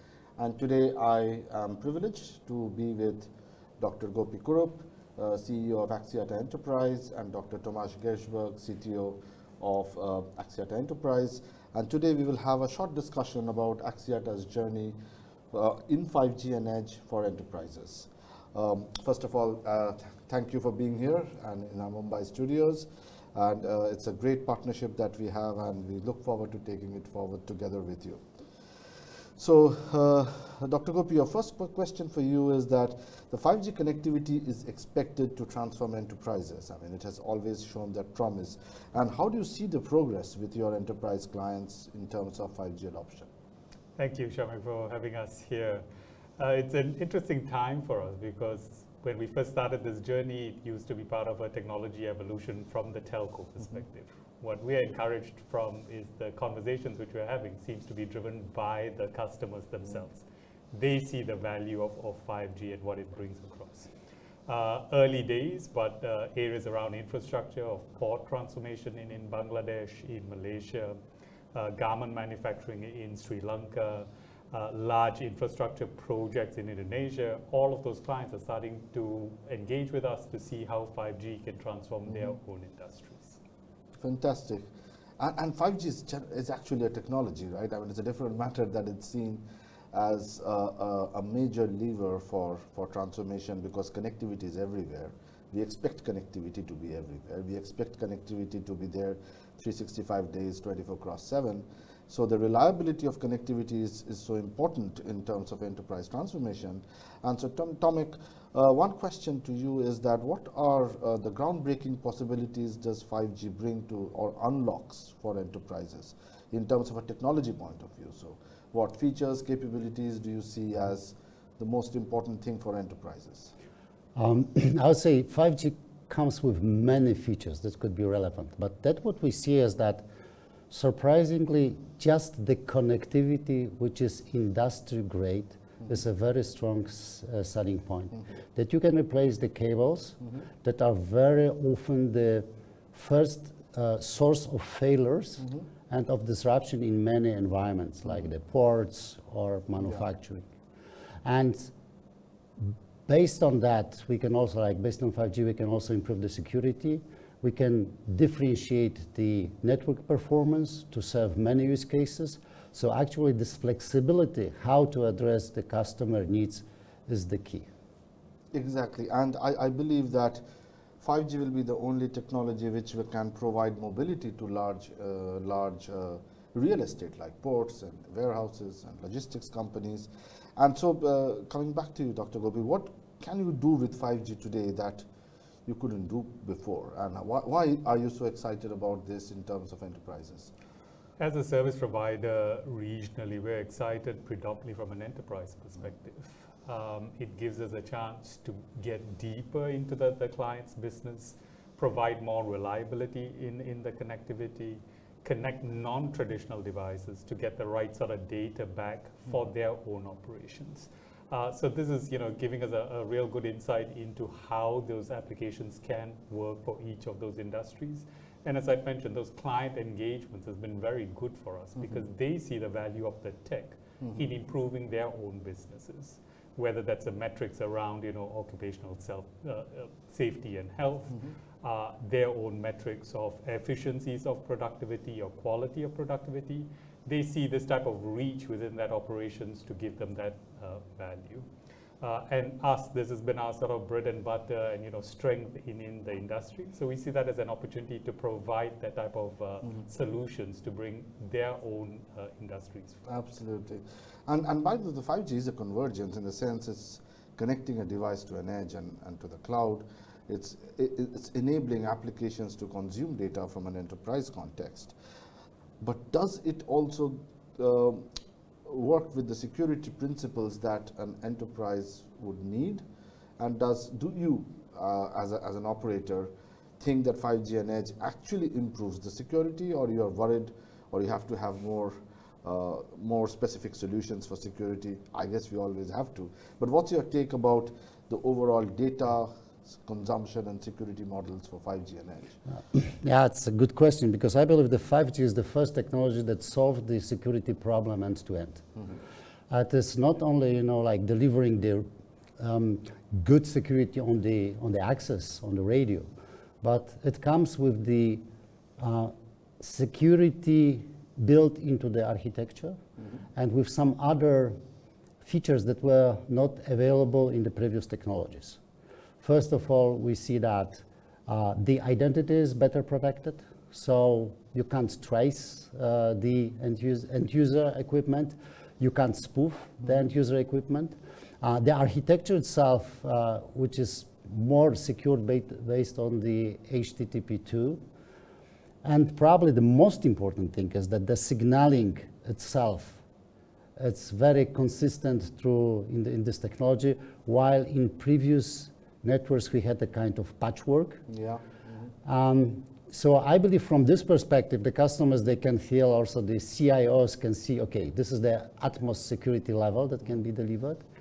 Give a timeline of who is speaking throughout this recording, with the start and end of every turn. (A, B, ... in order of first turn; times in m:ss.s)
0:00.4-0:15.0 A
0:15.5-0:28.2 A
0:29.4-0:43.3 A
0:44.0-0:45.9 B
0:46.4-1:03.9 B
1:04.5-1:11.0 B
1:11.5-1:23.4 B
1:22.1-1:22.4 A
1:24.0-1:24.7 A
1:25.2-2:03.5 A
2:04.2-2:10.0 C
2:10.7-2:30.5 C
2:25.4-2:25.6 A
2:29.8-2:30.0 A
2:31.2-2:31.7 C
2:32.6-2:47.7 C
2:48.5-2:50.4 A
2:51.0-3:05.1 A
3:05.7-3:10.5 A
3:11.2-4:01.5 B
3:41.8-3:42.0 A
4:02.0-4:13.0 B
4:13.1-4:25.0 A
4:25.8-4:28.1 A
4:28.6-4:32.8 A
4:33.4-4:52.4 A
4:52.5-4:58.6 C
4:59.5-5:01.9 C
5:02.4-5:06.1 C
5:06.6-5:08.2 C
5:08.8-5:12.8 C
5:13.4-5:14.6 C
5:15.2-5:18.6 C
5:19.2-5:37.8 C
5:38.8-5:43.0 C
5:43.8-5:51.1 C
5:51.1-5:51.9 A
5:52.0-6:00.8 C